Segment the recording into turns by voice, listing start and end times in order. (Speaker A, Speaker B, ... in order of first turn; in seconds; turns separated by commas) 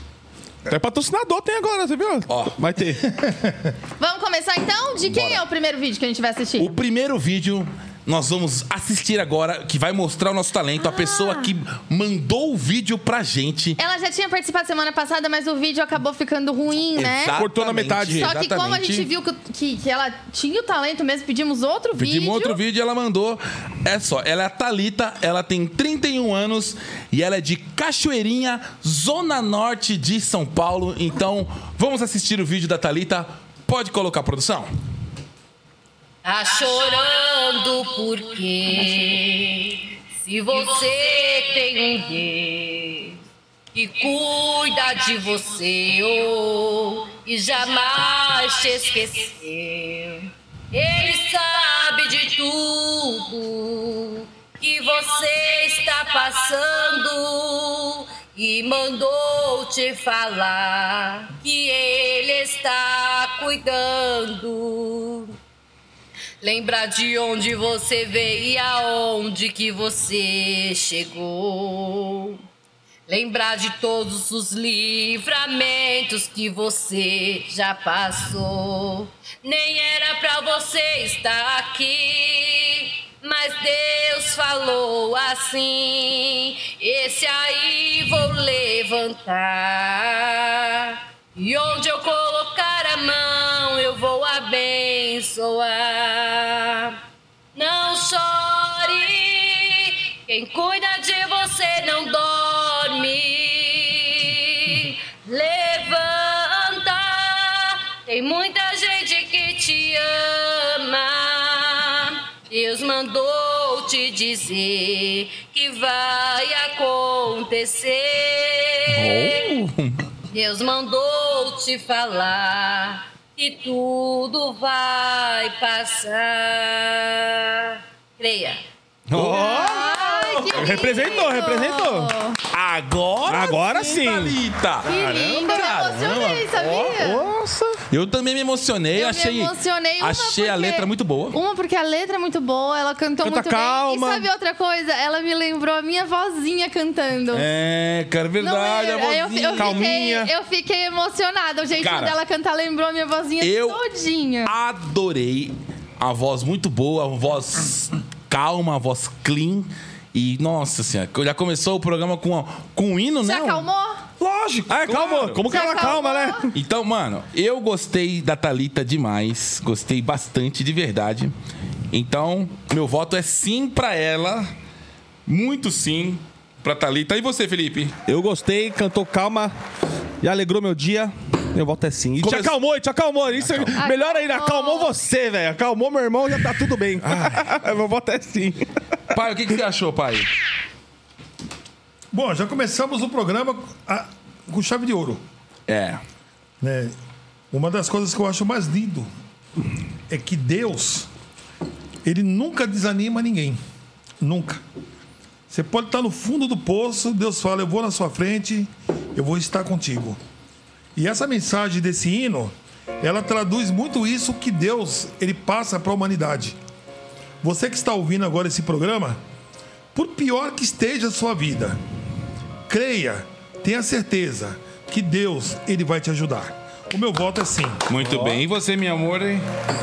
Speaker A: 0.7-3.0, Speaker B: 2.3-2.6, Speaker C: 3.0-3.7, Speaker D: 4.0-6.8, Speaker B: 5.1-5.4, Speaker B: 6.6-13.8, Speaker D: 10.8-11.5, Speaker D: 13.8-17.4, Speaker B: 17.0-19.1, Speaker A: 17.3-18.3, Speaker D: 18.2-22.6, Speaker B: 22.0-34.7, Speaker E: 36.2-43.2, Speaker E: 43.7-65.3, Speaker E: 66.4-72.4, Speaker E: 73.1-97.0, Speaker E: 97.5-119.5, Speaker B: 118.9-120.0, Speaker E: 120.3-128.6, Speaker A: 129.1-129.9, Speaker B: 129.2-131.2, Speaker D: 129.3-132.4, Speaker A: 130.5-132.1, Speaker B: 132.5-136.7, Speaker A: 133.3-135.5, Speaker D: 134.8-137.3, Speaker A: 136.5-137.8, Speaker B: 137.9-141.4, Speaker D: 138.9-147.4, Speaker A: 143.2-144.3, Speaker B: 147.3-149.9, Speaker D: 148.4-154.5, Speaker A: 149.6-150.3, Speaker B: 151.8-152.2, Speaker B: 153.4-153.8, Speaker B: 154.4-163.7, Speaker D: 163.2-164.0, Speaker A: 164.2-166.5, Speaker B: 164.7-165.9, Speaker D: 165.5-166.4, Speaker B: 166.5-171.3, Speaker B: 171.9-174.5, Speaker B: 175.3-178.0, Speaker A: 178.1-179.6, Speaker A: 180.2-188.7, Speaker B: 182.2-182.6, Speaker B: 183.2-183.8, Speaker D: 183.8-184.9, Speaker B: 187.0-187.6, Speaker B: 189.1-190.3, Speaker C: 192.1-195.2, Speaker B: 195.7-196.0, Speaker C: 196.6-196.9, Speaker C: 197.5-199.1, Speaker C: 200.1-201.1, Speaker C: 202.0-203.6, Speaker C: 204.2-204.6, Speaker C: 205.5-210.2, Speaker C: 211.0-216.6, Speaker C: 217.4-219.2, Speaker C: 219.9-221.8, Speaker C: 222.7-227.9, Speaker B: 227.9-229.5, Speaker A: 228.0-228.4